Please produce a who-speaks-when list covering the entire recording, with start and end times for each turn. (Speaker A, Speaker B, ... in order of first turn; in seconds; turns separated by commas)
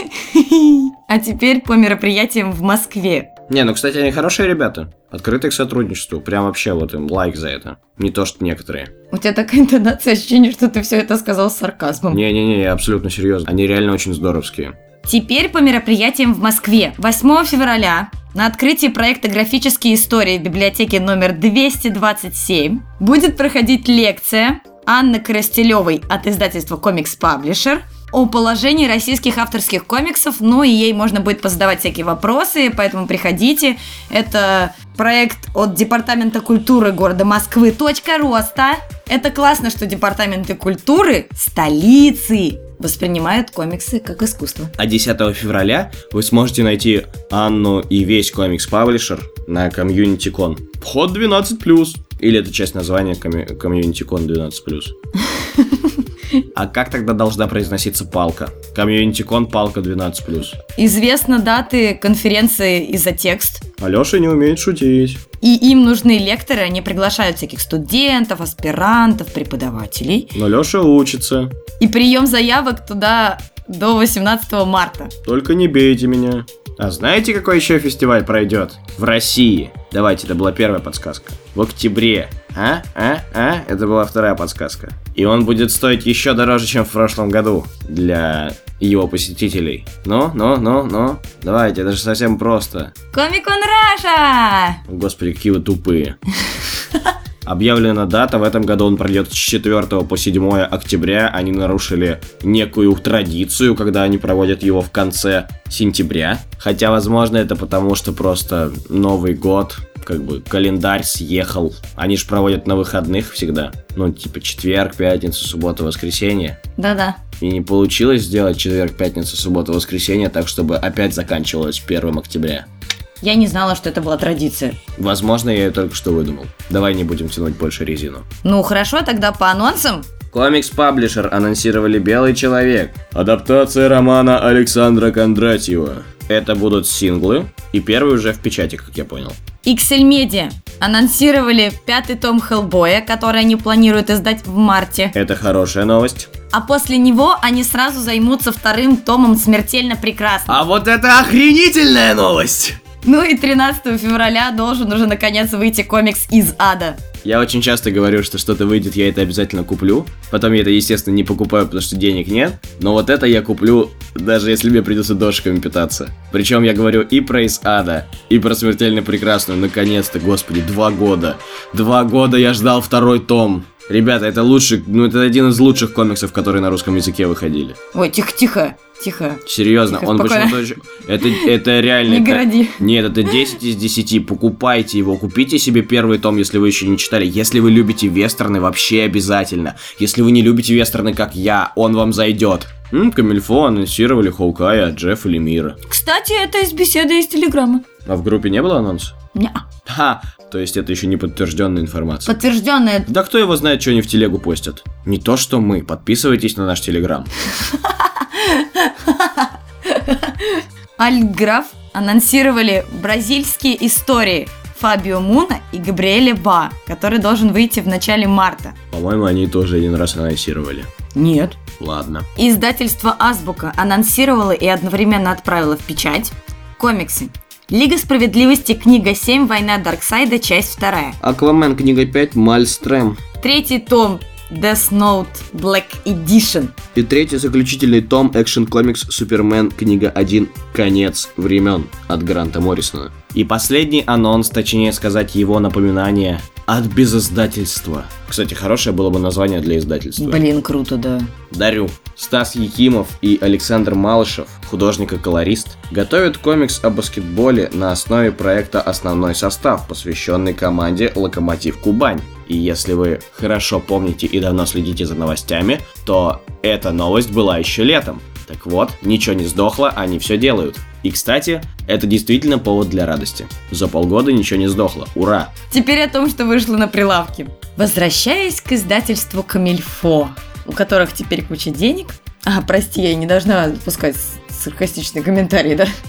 Speaker A: 0.1-3.3, Speaker B: 3.5-8.9, Speaker A: 9.1-12.2, Speaker B: 12.1-14.8, Speaker A: 15.0-44.7, Speaker B: 44.8-54.9, Speaker A: 55.5-56.0, Speaker B: 56.5-60.6, Speaker A: 60.8-63.6, Speaker B: 63.8-65.2, Speaker A: 65.4-70.3, Speaker B: 70.3-71.5, Speaker A: 71.8-75.1, Speaker B: 75.3-92.9, Speaker A: 93.1-94.8, Speaker B: 94.9-96.2, Speaker B: 97.5-116.6, Speaker A: 116.8-117.2, Speaker B: 117.4-122.7, Speaker A: 123.2-124.8, Speaker B: 125.0-128.2, Speaker A: 128.4-130.1, Speaker B: 130.3-139.4, Speaker A: 139.6-145.1, Speaker B: 145.1-146.3, Speaker A: 146.5-150.6, Speaker B: 150.5-152.8, Speaker A: 153.0-157.0, Speaker B: 157.2-177.8, Speaker A: 177.9-180.6, Speaker B: 179.5-195.8, Speaker A: 181.2-181.5, Speaker A: 182.1-183.4, Speaker A: 195.9-197.8, Speaker B: 198.1-199.1, Speaker A: 199.3-199.6, Speaker B: 199.9-202.3, Speaker A: 202.3-203.1, Speaker B: 203.1-207.3, Speaker A: 207.6-218.8, Speaker B: 218.9-220.9, Speaker A: 221.1-221.6, Speaker B: 221.8-222.3, Speaker A: 222.4-231.2, Speaker B: 231.2-233.2, Speaker A: 233.4-236.7, Speaker B: 236.9-250.4, Speaker A: 250.2-251.3, Speaker B: 251.5-275.5, Speaker A: 275.7-285.9